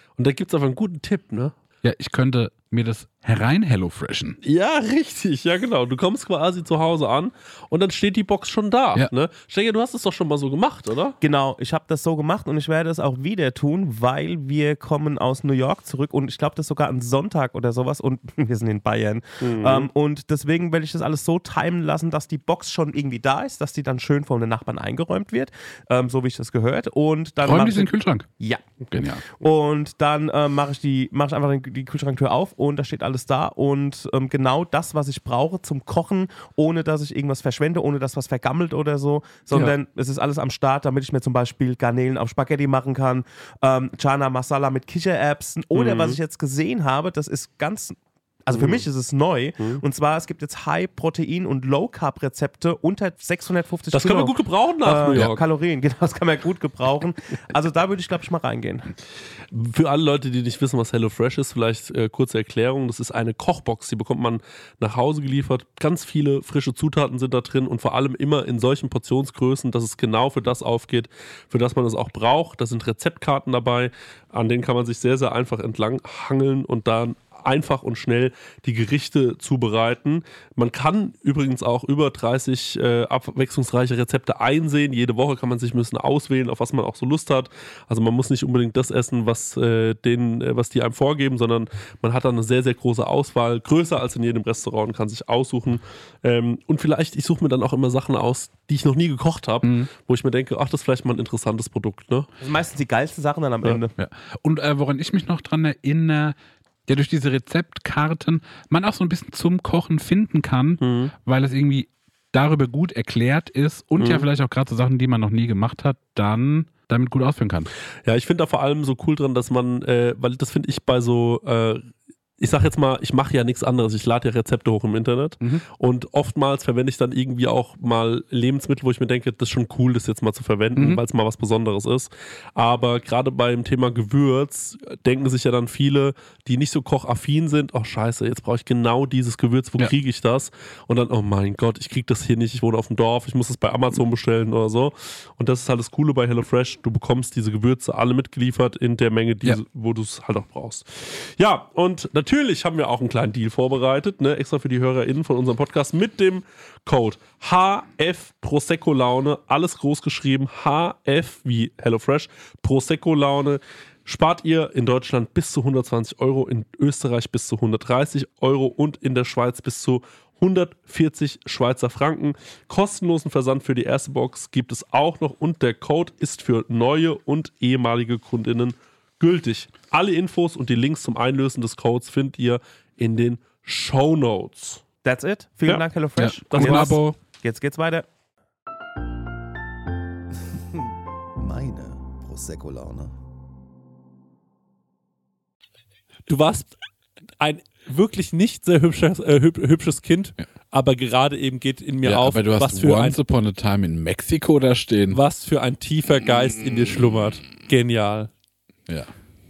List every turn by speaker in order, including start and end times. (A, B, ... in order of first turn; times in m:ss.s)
0:00.2-0:01.5 A
0:01.8-0:04.4 B
0:04.4-0:11.1 A
0:11.2-0:58.9 C
0:19.4-0:19.9 A
0:27.4-0:28.3 B
0:28.9-0:29.2 B
0:45.7-0:46.2 A
0:48.5-0:48.8 A
0:53.9-0:55.4 A
0:59.5-1:42.3 A
1:39.6-1:39.9 B
1:42.4-1:43.9 C
1:44.0-1:46.4 B
1:46.9-1:57.7 B
1:50.8-1:51.1 A
1:54.0-1:54.3 A
1:58.0-3:04.8 A
2:10.8-2:11.0 B
3:05.0-3:08.0 C
3:06.2-3:07.2 B
3:06.5-3:07.0 A
3:10.7-3:13.1 D
3:16.3-3:16.8 A
3:17.4-3:23.2 A
3:22.0-3:25.2 B
3:25.1-3:28.3 A
3:28.9-3:29.1 B